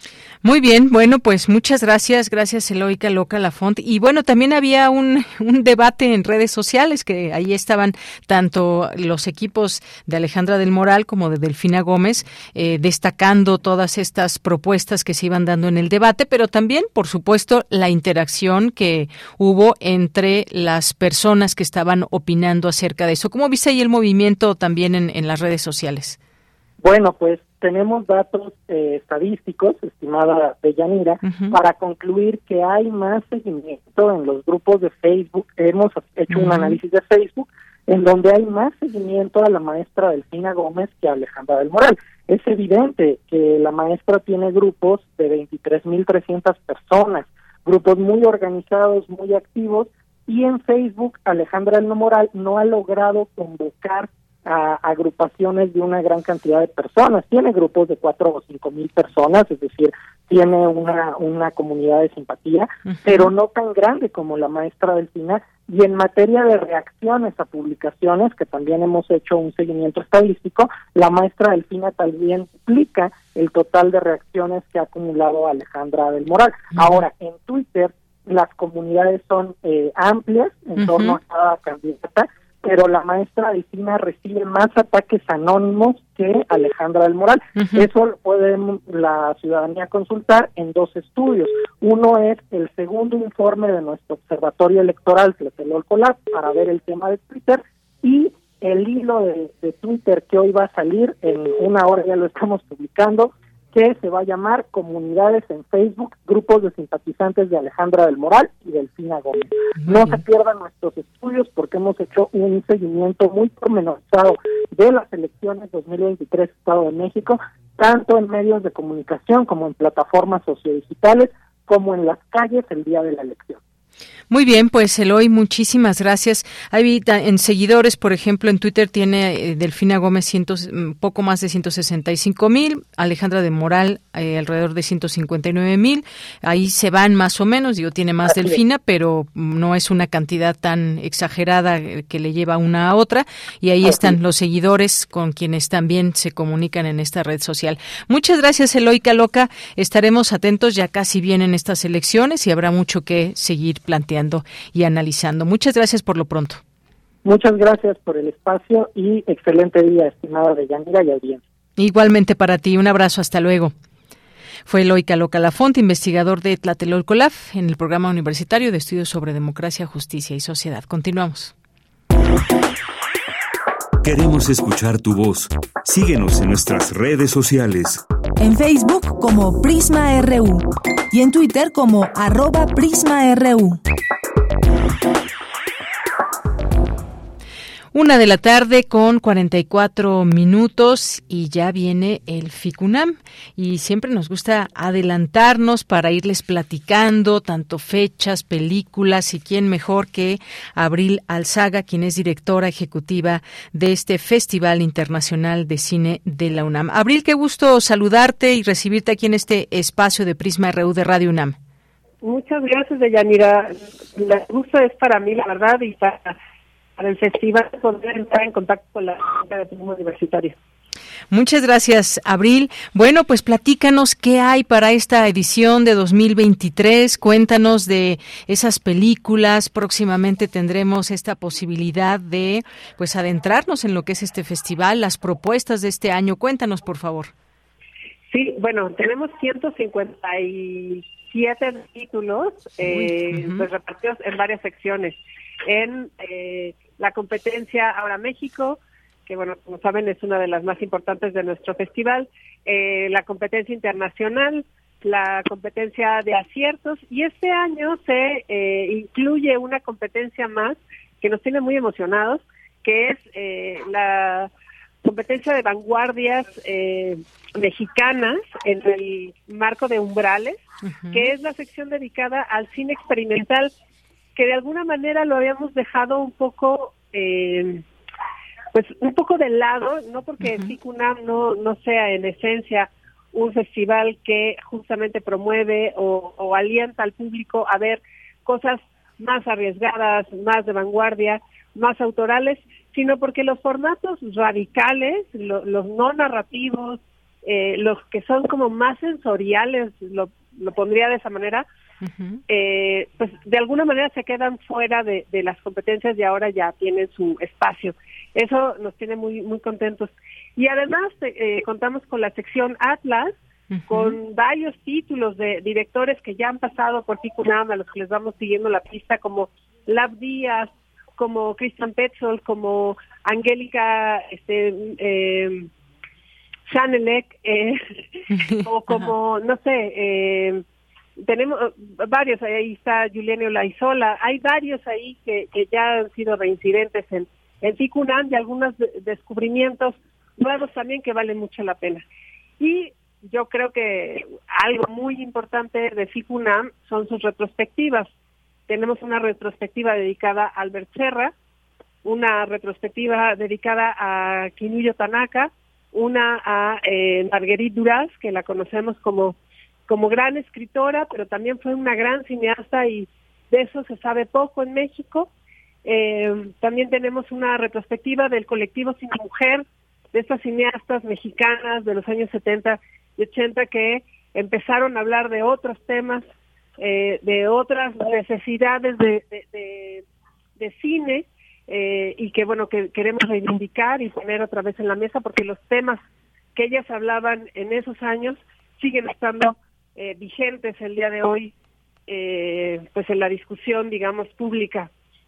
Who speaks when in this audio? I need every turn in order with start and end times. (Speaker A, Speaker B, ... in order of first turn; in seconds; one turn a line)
Speaker A: 0.4-26.2
Speaker B: 26.8-123.6
Speaker A: 31.2-31.6
Speaker A: 36.3-36.8
Speaker A: 62.9-63.3
Speaker A: 80.8-81.2
Speaker A: 87.5-87.9
Speaker A: 109.8-110.2
Speaker A: 124.3-156.6
Speaker B: 138.3-138.6
Speaker B: 143.8-144.1
Speaker B: 157.2-161.4
Speaker A: 161.8-163.7
Speaker A: 164.7-171.5
Speaker C: 174.0-178.0
Speaker D: 178.4-183.8
Speaker A: 187.9-211.6
Speaker E: 212.2-216.4
Speaker E: 217.0-220.6
Speaker A: 221.3-237.3
Speaker E: 238.3-264.5
Speaker A: 242.8-243.7
Speaker E: 265.0-273.7
Speaker A: 270.8-271.3
Speaker E: 274.4-277.8
Speaker E: 278.7-301.6
Speaker A: 280.4-280.7
Speaker A: 302.0-302.4
Speaker E: 302.5-313.3
Speaker A: 313.7-314.2
Speaker E: 313.9-325.7
Speaker E: 326.7-330.6
Speaker A: 328.3-329.1
Speaker E: 331.2-342.0
Speaker E: 342.6-348.1
Speaker E: 348.7-351.3
Speaker E: 352.1-359.4
Speaker E: 359.9-365.3
Speaker E: 365.8-376.2
Speaker E: 376.8-380.0
Speaker E: 380.6-386.0
Speaker E: 386.6-391.5
Speaker E: 392.1-394.9